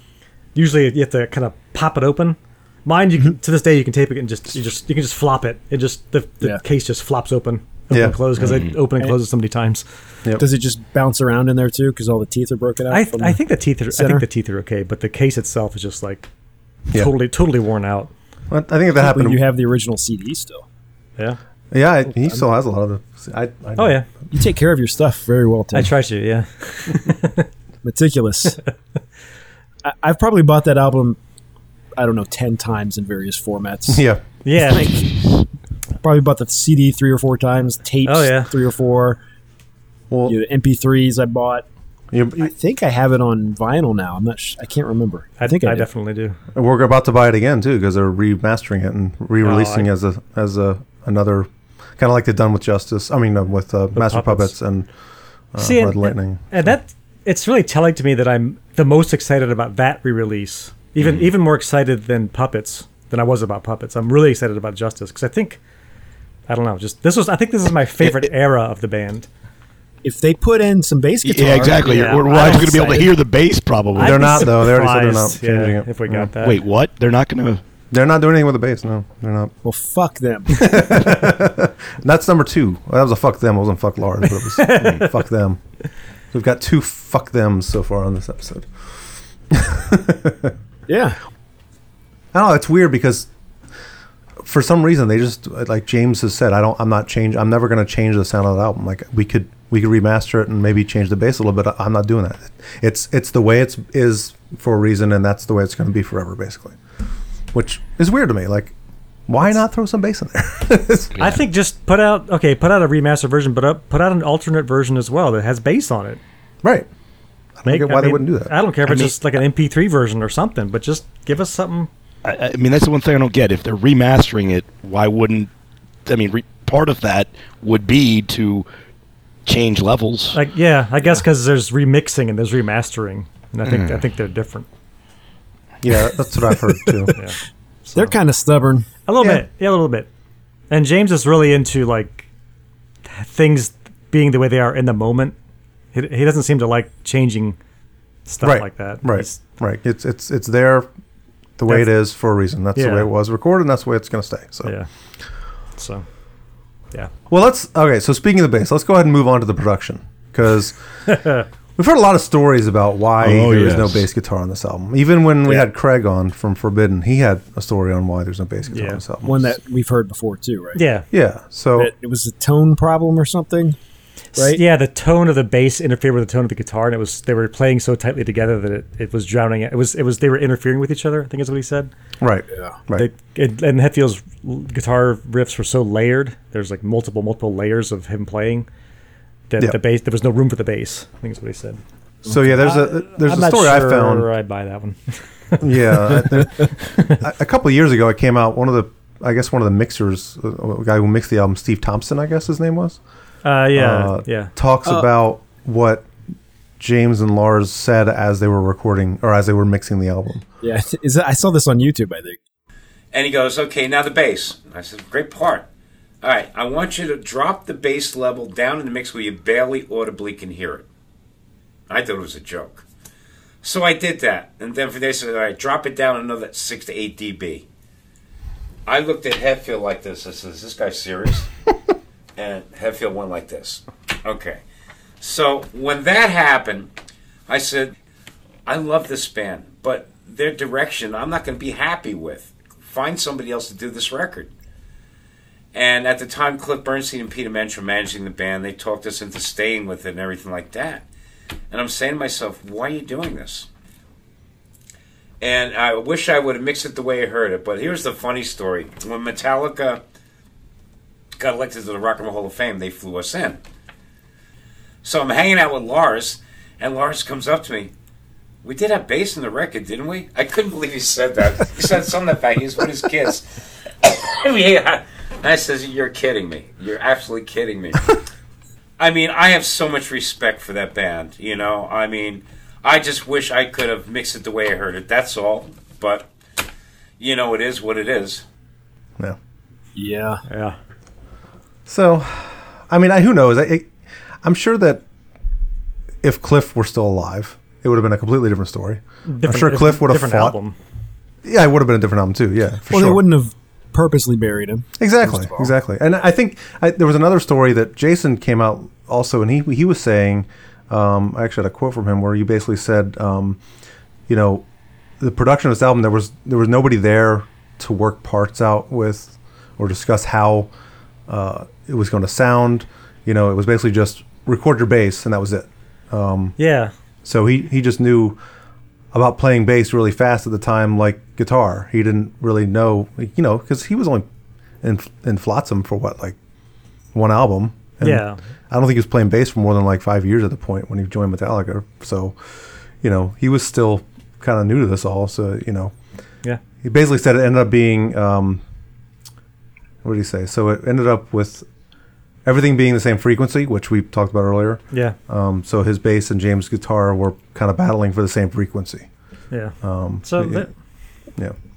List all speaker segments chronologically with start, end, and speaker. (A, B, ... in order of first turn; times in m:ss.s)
0:00.5-0:09.8 A
0:07.9-0:08.2 B
0:10.4-0:14.2 C
0:12.9-0:16.3 A
0:16.9-0:18.1 A
0:18.5-0:19.4 B
0:19.0-0:20.6 C
0:21.7-0:24.1 B
0:23.8-0:24.0 A
0:24.3-0:25.9 C
0:25.7-0:27.5 A
0:27.8-0:28.6 C
0:29.8-0:31.2 C
0:32.0-0:34.0 C
0:33.9-0:34.2 B
0:34.4-0:34.9 A
0:34.6-0:35.2 C
0:36.0-0:39.2 C
0:38.0-0:38.5 A
0:40.1-0:40.4 B
0:40.2-0:41.6 C
0:42.1-0:42.5 B
0:42.4-0:45.9 C
0:45.4-0:46.4 A
0:46.5-0:54.9 B
0:49.4-0:49.9 A
0:53.9-0:54.6 A
0:55.5-0:56.4 B
0:55.6-1:05.6 A
1:01.0-1:01.3 D
1:06.5-1:09.3 A
1:10.0-1:13.1 C
1:11.2-1:14.4 D
1:11.8-1:12.7 A
1:14.0-1:16.6 A
1:14.0-1:16.3 B
1:16.4-1:17.6 D
1:17.9-1:19.5 B
1:19.6-1:20.8 C
1:20.5-1:25.6 B
1:24.4-1:25.1 A
1:26.3-1:28.7 B
1:29.5-1:30.5 B
1:30.9-1:31.2 C
1:32.3-1:33.3 B
1:34.4-1:46.8 B
1:47.5-1:48.7 B
1:49.3-1:51.2 B
1:51.2-1:56.2 A
1:56.6-1:56.9 B
1:57.6-1:58.5 B
1:57.6-2:01.9 A
1:58.9-1:59.1 D
2:02.2-2:05.5 D
2:06.0-2:08.6 D
2:09.4-2:10.4 D
2:10.3-2:14.6 A
2:13.6-2:14.0 D
2:15.8-2:17.1 B
2:17.1-2:18.1 A
2:17.9-2:18.9 C
2:19.0-2:20.1 A
2:19.2-2:19.4 B
2:20.7-2:22.3 A
2:23.0-2:25.4 A
2:25.9-2:27.6 A
2:28.3-2:29.4 A
2:28.4-2:30.9 B
2:31.6-2:34.7 B
2:32.7-2:33.1 A
2:35.8-2:36.0 A
2:37.3-2:40.8 B
2:41.1-2:41.4 A
2:41.8-2:49.6 B
2:43.2-2:44.0 D
2:48.7-2:49.0 A
2:49.2-2:50.9 C
2:50.8-2:51.0 A
2:51.1-2:51.9 B
2:51.8-2:53.8 C
2:54.4-2:54.6 C
2:54.4-3:01.9 A
3:02.2-3:03.1 B
3:02.9-3:08.7 A
3:09.5-3:11.8 A
3:12.2-3:14.3 B
3:12.5-3:16.3 A
3:15.6-3:23.0 B
3:23.4-3:24.5 A
3:23.7-3:26.1 B
3:26.8-3:30.4 B
3:30.6-3:32.4 C
3:33.1-3:35.6 E
3:36.2-3:40.8 E
3:41.9-3:42.8 E
3:43.6-3:47.6 E
3:48.8-3:51.5 E
3:52.4-3:54.6 E
3:55.2-3:56.9 E
3:57.5-3:57.9 E
3:58.6-4:04.5 E
4:05.7-4:11.0 E
4:11.7-4:13.7 E
4:15.4-4:20.0 E
4:21.4-4:23.6 E
4:25.0-4:27.9 E
4:28.6-4:33.5 E
4:34.0-4:38.2 E
4:39.0-4:46.3 E
4:47.2-4:48.4 E
4:49.9-4:50.4 C
4:50.5-4:50.8 A
4:51.9-4:55.0 B
4:56.2-5:00.6 B
4:59.3-5:00.8 A
5:01.4-5:03.2 B
5:02.9-5:05.7 C
5:05.0-5:13.6 B
5:14.3-5:14.6 B
5:15.2-5:20.7 B
5:21.3-5:26.6 B
5:26.6-5:26.9 A
5:27.2-5:28.4 B
5:29.1-5:34.2 B
5:34.8-5:36.4 B
5:37.1-5:42.4 B
5:38.0-5:38.4 A
5:43.0-5:45.9 B
5:46.8-5:48.6 B
5:50.0-5:51.6 B
5:52.4-5:59.1 B
5:59.5-6:00.7 A
5:59.8-6:00.7 B